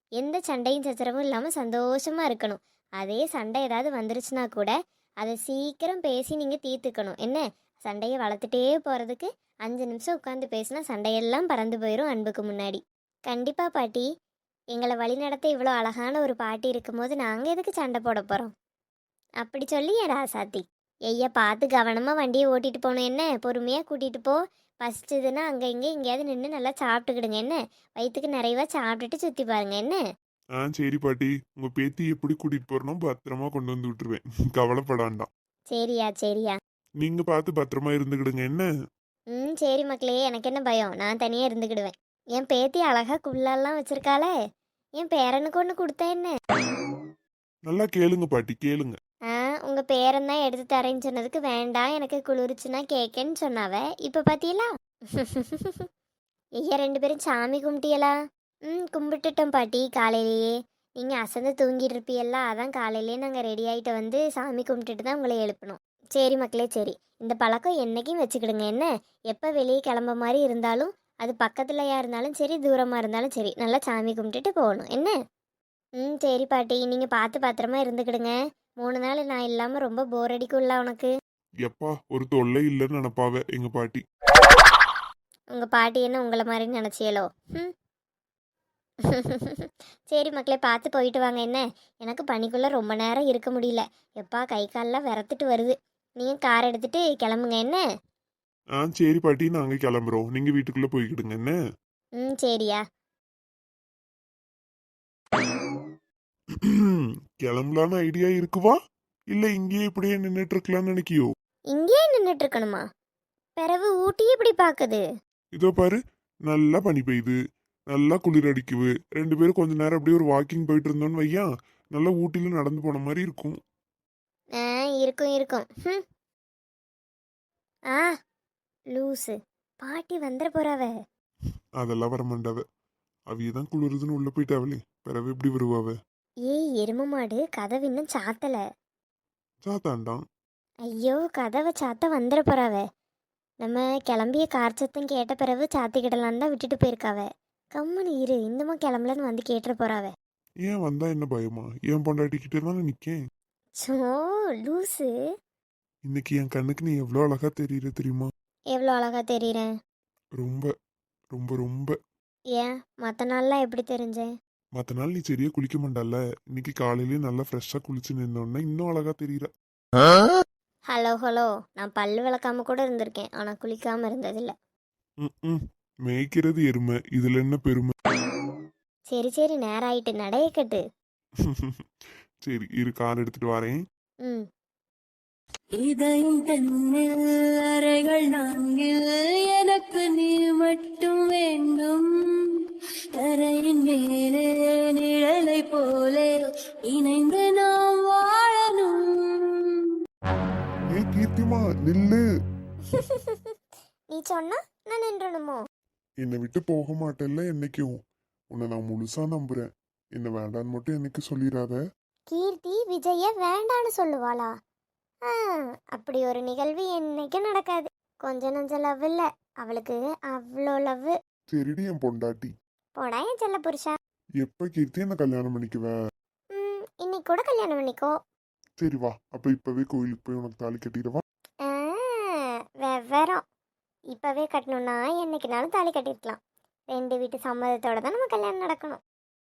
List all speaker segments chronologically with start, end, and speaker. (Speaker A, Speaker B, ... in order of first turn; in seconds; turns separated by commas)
Speaker A: 0.2-14.1, Speaker A: 14.7-18.5, Speaker A: 19.4-30.0, Speaker B: 30.6-35.3, Speaker A: 35.7-36.6, Speaker B: 37.0-38.7, Speaker A: 39.3-44.3, Speaker A: 45.0-46.3, Speaker B: 47.7-49.0, Speaker A: 49.3-55.9, Speaker A: 56.6-58.1, Speaker A: 58.7-75.1, Speaker A: 76.0-81.1, Speaker B: 81.6-84.0, Speaker A: 85.5-87.7, Speaker A: 89.0-97.8, Speaker B: 98.8-101.5, Speaker A: 102.2-102.8, Speaker B: 106.5-108.8, Speaker B: 109.3-111.3, Speaker A: 111.7-112.8, Speaker A: 113.6-115.0, Speaker B: 115.5-117.4, Speaker B: 117.9-123.6, Speaker A: 124.6-126.0, Speaker A: 128.9-130.9, Speaker B: 131.8-132.6, Speaker B: 133.3-135.9, Speaker A: 136.5-138.6, Speaker B: 139.6-140.2, Speaker A: 140.9-142.8, Speaker A: 143.6-150.1, Speaker B: 150.6-153.2, Speaker A: 153.8-155.1, Speaker B: 156.1-158.3, Speaker A: 158.7-159.7, Speaker B: 160.4-160.7, Speaker B: 161.3-161.9, Speaker A: 162.5-164.3, Speaker B: 164.8-169.5, Speaker A: 170.9-174.5, Speaker B: 175.2-177.9, Speaker A: 179.1-180.8, Speaker B: 181.4-181.9, Speaker B: 182.4-183.8, Speaker C: 185.8-192.6, Speaker C: 193.1-199.9, Speaker B: 200.9-202.2, Speaker A: 202.9-203.5, Speaker A: 204.1-205.6, Speaker B: 206.2-208.0, Speaker B: 208.5-211.8, Speaker A: 212.3-214.5, Speaker A: 215.2-221.1, Speaker B: 221.5-222.5, Speaker A: 223.0-223.9, Speaker B: 224.4-225.9, Speaker A: 226.5-228.2, Speaker B: 228.8-231.2, Speaker A: 231.6-233.4, Speaker A: 234.1-236.4, Speaker A: 236.9-239.0